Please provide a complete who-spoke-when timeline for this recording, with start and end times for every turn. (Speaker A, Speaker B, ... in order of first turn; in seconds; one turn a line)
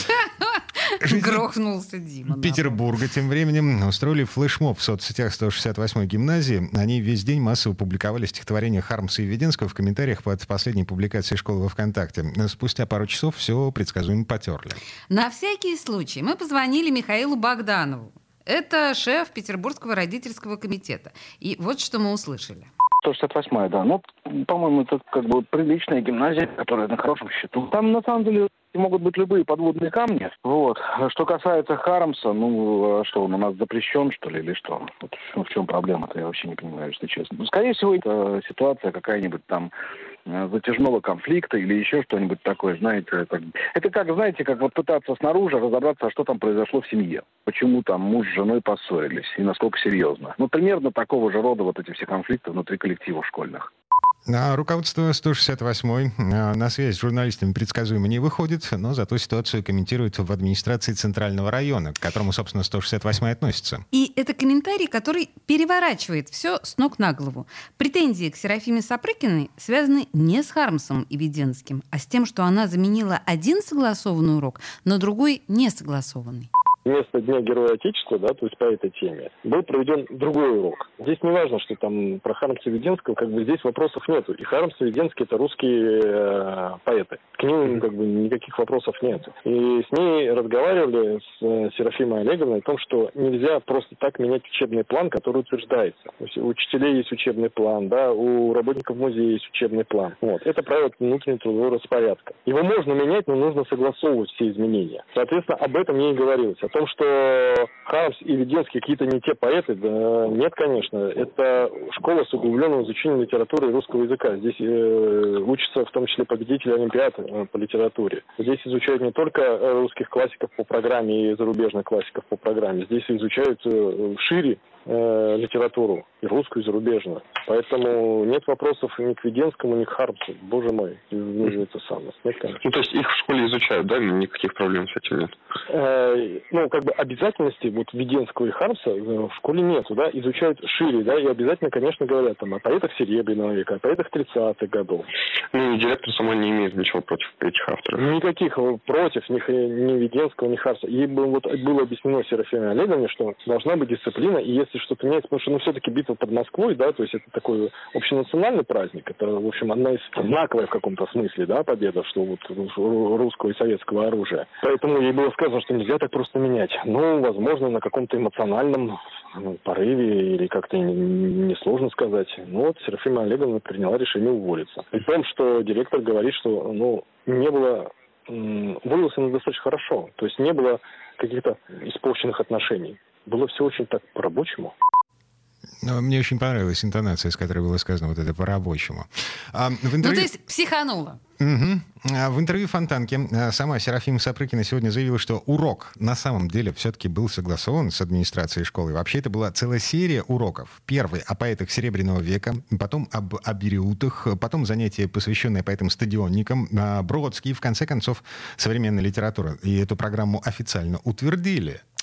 Speaker A: 0.3-2.8
Speaker B: 1.0-1.4
Speaker B: 2.3-14.8
Speaker A: 15.1-22.7
Speaker C: 23.0-39.7
Speaker C: 40.3-53.7
Speaker B: 54.3-63.8
Speaker A: 63.9-76.5
Speaker D: 76.8-132.6
Speaker E: 132.6-135.3
Speaker D: 135.7-145.1
Speaker E: 145.5-148.1
Speaker D: 147.9-184.7
Speaker B: 185.8-190.3
Speaker A: 190.0-191.2
Speaker B: 191.4-211.8